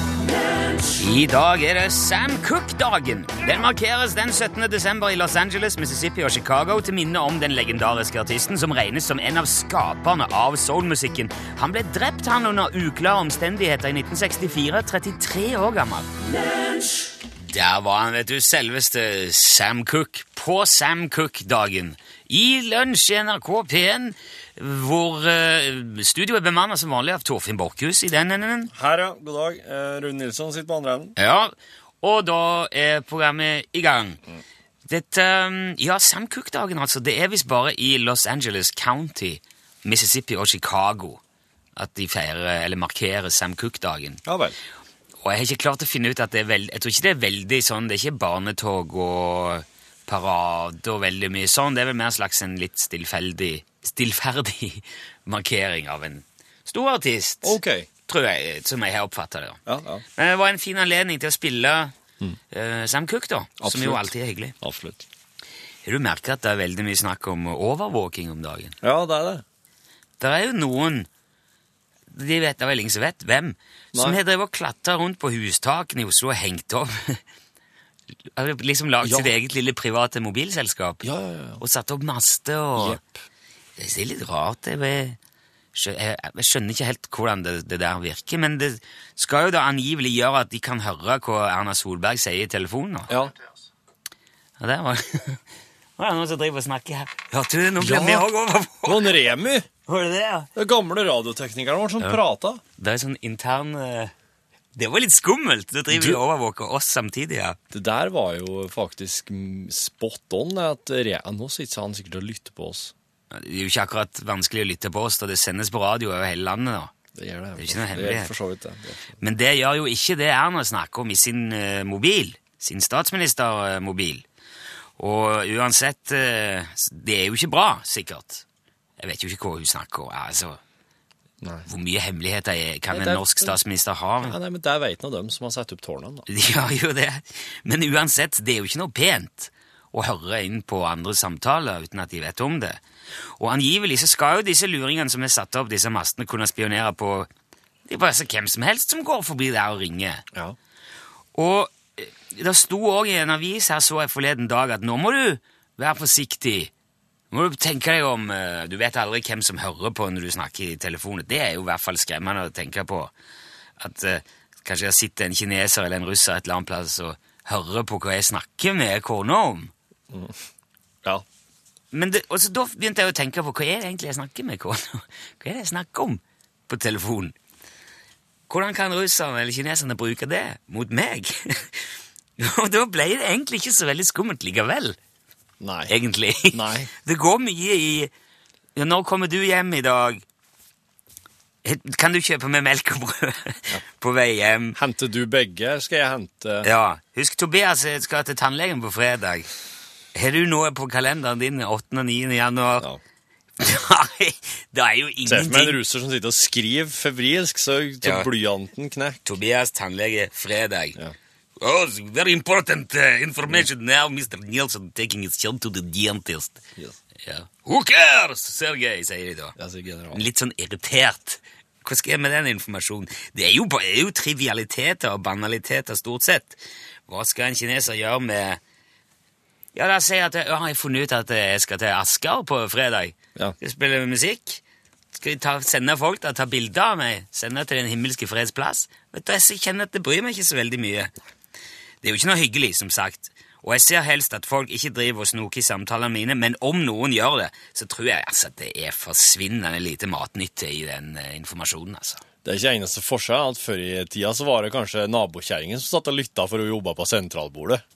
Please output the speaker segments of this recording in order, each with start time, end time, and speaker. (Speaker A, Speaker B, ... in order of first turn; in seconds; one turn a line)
Speaker A: 1.0-16.1
Speaker A: 17.4-28.7
Speaker B: 28.7-31.1
Speaker A: 31.2-34.2
Speaker A: 34.9-41.2
Speaker A: 41.8-44.2
Speaker B: 44.2-44.6
Speaker A: 45.2-59.6
Speaker B: 57.4-57.9
Speaker B: 59.7-60.0
Speaker A: 60.2-61.9
Speaker A: 62.5-64.5
Speaker B: 63.6-65.0
Speaker A: 65.8-68.8
Speaker B: 68.8-69.4
Speaker A: 70.2-71.1
Speaker A: 72.1-77.2
Speaker B: 73.9-74.2
Speaker A: 78.4-81.0
Speaker B: 79.0-79.3
Speaker B: 81.0-81.6
Speaker A: 81.6-83.0
Speaker B: 82.8-83.2
Speaker A: 83.8-85.2
Speaker A: 85.7-93.1
Speaker B: 93.1-93.3
Speaker A: 94.6-95.4
Speaker A: 96.0-99.2
Speaker B: 97.8-98.3
Speaker B: 98.8-99.7
Speaker A: 99.9-100.5
Speaker B: 100.5-102.6
Speaker A: 102.8-104.1
Speaker A: 104.8-107.6
Speaker B: 105.9-106.2
Speaker B: 107.7-112.9
Speaker A: 113.3-116.9
Speaker B: 117.1-119.2
Speaker A: 117.6-118.3
Speaker A: 119.2-124.2
Speaker A: 125.0-128.4
Speaker A: 129.0-130.6
Speaker B: 131.4-131.7
Speaker A: 131.7-134.4
Speaker B: 132.9-133.6
Speaker B: 134.2-136.3
Speaker A: 136.3-142.8
Speaker A: 143.4-147.3
Speaker A: 147.9-150.2
Speaker A: 151.3-156.7
Speaker A: 157.3-163.1
Speaker A: 163.8-169.7
Speaker B: 170.1-170.4
Speaker A: 171.9-177.3
Speaker A: 178.5-181.8
Speaker A: 182.4-185.0
Speaker B: 185.6-185.9
Speaker A: 185.9-188.1
Speaker B: 186.5-186.9
Speaker A: 188.8-190.2
Speaker A: 191.6-194.8
Speaker B: 194.8-196.7
Speaker A: 196.6-199.5
Speaker A: 200.1-202.9
Speaker A: 203.6-205.8
Speaker B: 205.2-209.2
Speaker A: 208.0-208.3
Speaker A: 209.2-211.0
Speaker A: 211.6-216.6
Speaker A: 217.2-219.6
Speaker B: 219.6-220.3
Speaker A: 220.1-228.6
Speaker A: 229.7-234.6
Speaker A: 235.2-241.1
Speaker A: 242.0-252.2
Speaker B: 252.4-257.8